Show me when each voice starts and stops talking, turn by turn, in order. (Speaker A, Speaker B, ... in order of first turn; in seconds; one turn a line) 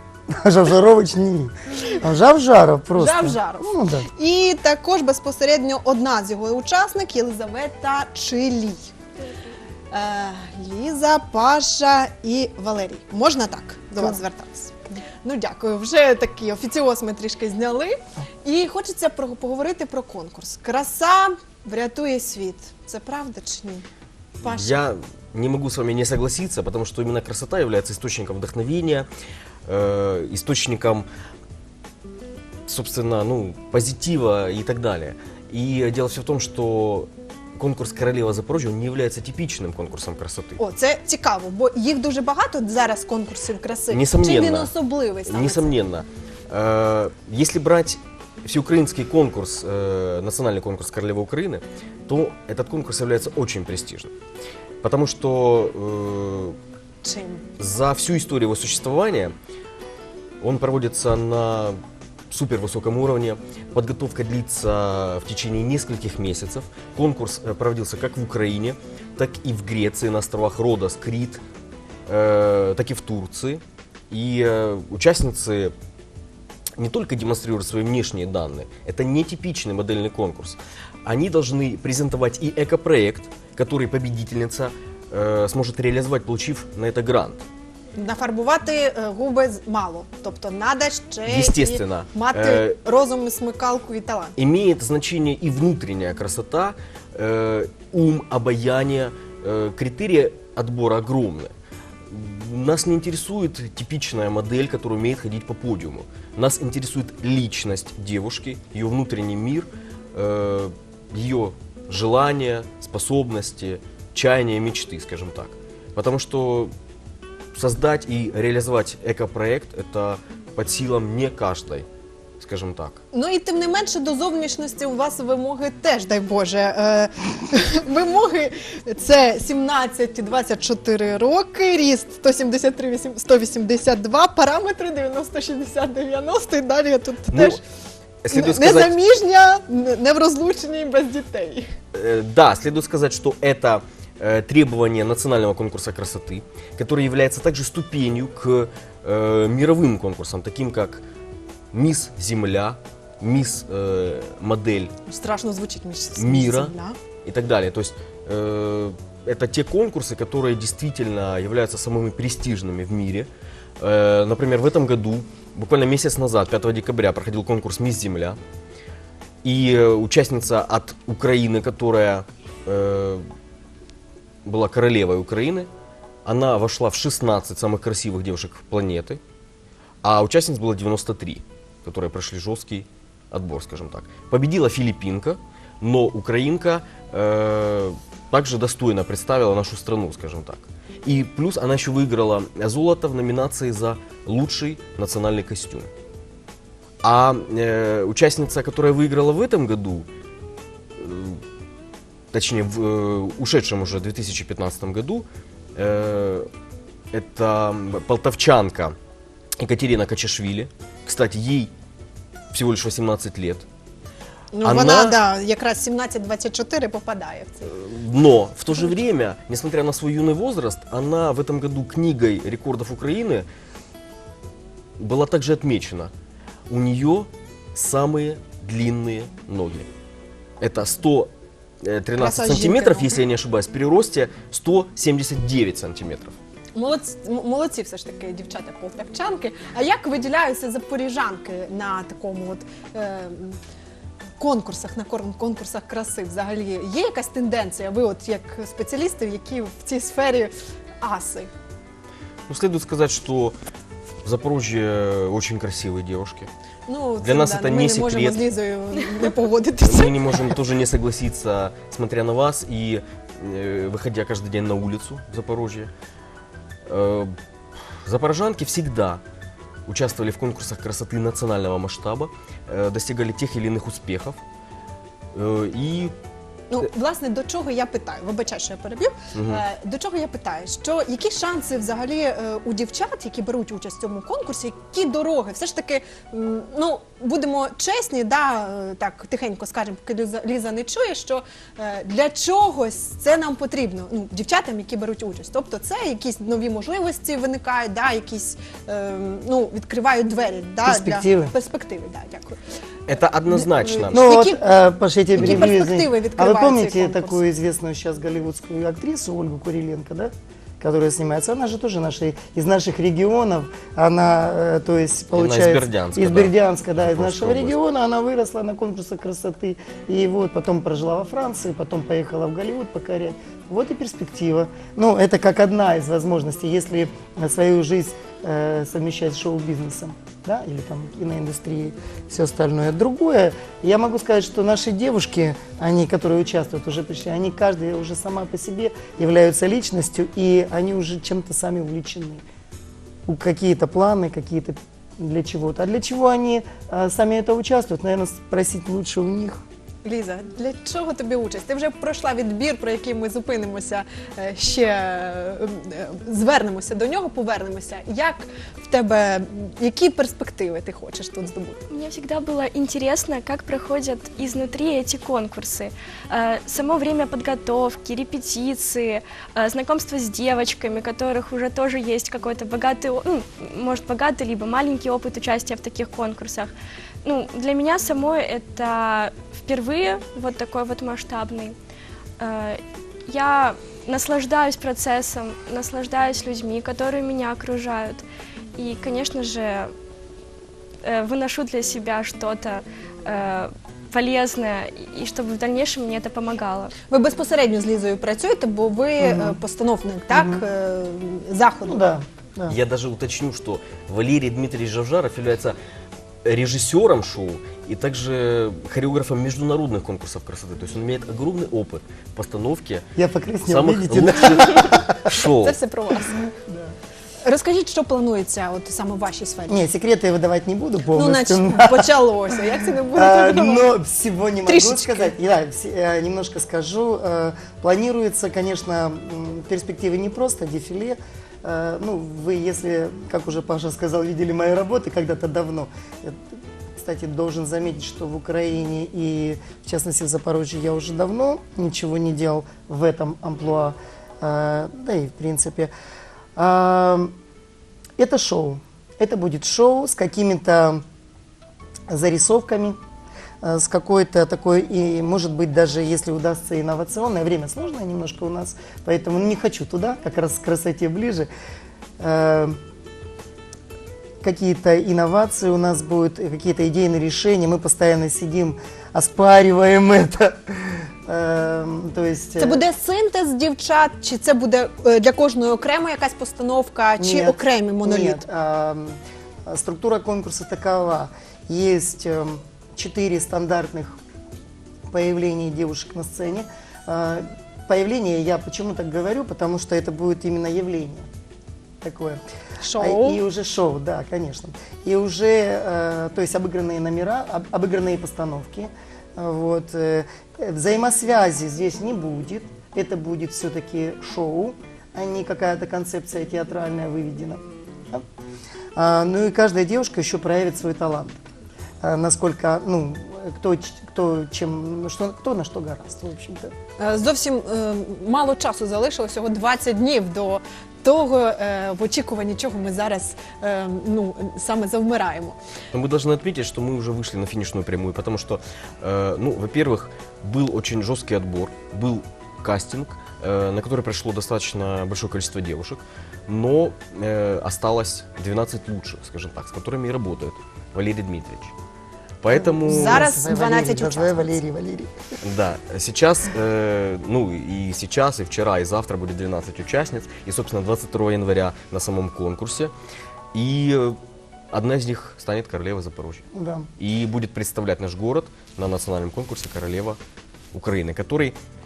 Speaker A: 0.3-4.1
Speaker B: 3.0-8.9
Speaker B: 9.9-23.9
Speaker B: 24.4-24.8
Speaker C: 24.4-29.1
Speaker C: 29.7-31.1
Speaker C: 32.7-40.6
Speaker B: 40.6-45.8
Speaker C: 43.9-54.1
Speaker C: 54.8-56.6
Speaker B: 57.0-57.4
Speaker C: 57.6-59.3
Speaker C: 60.4-61.8
Speaker C: 62.3-71.4
Speaker C: 72.1-75.7
Speaker C: 76.8-87.5
Speaker B: 88.0-94.3
Speaker C: 91.3-92.8
Speaker C: 94.4-101.5
Speaker C: 102.1-116.7
Speaker C: 117.5-121.9
Speaker C: 122.4-123.0
Speaker B: 123.1-137.6
Speaker C: 137.3-137.6
Speaker C: 138.2-139.0
Speaker B: 138.3-141.7
Speaker C: 141.9-151.0
Speaker C: 151.7-154.9
Speaker B: 155.1-157.0
Speaker C: 156.2-156.7
Speaker C: 157.2-168.4
Speaker C: 169.4-173.2
Speaker C: 174.4-175.7
Speaker C: 176.2-179.2
Speaker C: 180.0-195.9
Speaker C: 197.0-200.1
Speaker C: 201.0-201.4
Speaker C: 202.3-206.5
Speaker C: 207.1-209.0
Speaker C: 209.6-211.7
Speaker C: 212.5-213.7
Speaker B: 214.5-217.7
Speaker C: 214.6-215.2
Speaker C: 217.6-223.5
Speaker C: 225.0-226.1
Speaker C: 226.7-229.9
Speaker C: 230.6-231.3
Speaker C: 231.8-236.3
Speaker B: 232.2-233.2
Speaker B: 236.8-243.6
Speaker B: 244.4-251.5
Speaker C: 252.5-253.6
Speaker C: 254.2-256.5
Speaker B: 256.9-260.5
Speaker C: 257.2-258.4
Speaker C: 259.8-265.9
Speaker C: 266.9-267.3
Speaker C: 268.1-269.2
Speaker C: 269.9-274.4
Speaker C: 275.3-276.1
Speaker B: 276.7-302.6
Speaker C: 279.4-279.6
Speaker A: 300.8-301.5
Speaker C: 303.1-304.3
Speaker B: 303.5-304.6
Speaker A: 304.1-342.4
Speaker B: 305.4-307.4
Speaker C: 315.3-317.8
Speaker A: 343.3-349.6
Speaker B: 350.0-361.8
Speaker D: 361.9-376.7
Speaker D: 377.2-381.8
Speaker D: 382.4-388.2
Speaker D: 388.8-389.9
Speaker D: 391.0-396.9
Speaker B: 397.1-402.1
Speaker A: 399.2-399.6
Speaker A: 400.3-400.6
Speaker A: 401.9-402.8
Speaker C: 402.7-405.8
Speaker C: 406.4-413.1
Speaker A: 413.2-415.2
Speaker C: 413.7-415.8
Speaker B: 415.6-416.4
Speaker A: 416.4-416.9
Speaker B: 417.4-419.9
Speaker A: 419.7-422.1
Speaker B: 421.1-423.9
Speaker A: 423.1-436.4
Speaker B: 424.7-425.3
Speaker A: 437.0-445.9
Speaker A: 446.6-447.3
Speaker A: 448.2-451.0
Speaker A: 452.1-453.0
Speaker A: 453.6-461.5
Speaker A: 462.2-462.8
Speaker A: 464.4-472.8
Speaker B: 472.6-478.4
Speaker A: 477.2-484.2
Speaker A: 485.1-491.3
Speaker A: 492.0-492.4
Speaker B: 492.8-493.4
Speaker A: 493.0-508.2
Speaker A: 508.9-511.4
Speaker A: 512.0-516.7
Speaker B: 517.0-525.6
Speaker C: 525.9-541.8
Speaker C: 542.4-543.3
Speaker A: 542.5-545.1
Speaker B: 542.9-544.6
Speaker C: 545.4-552.9
Speaker C: 553.5-554.2
Speaker C: 554.7-556.5
Speaker A: 556.5-556.9
Speaker C: 557.0-560.2
Speaker C: 560.7-561.6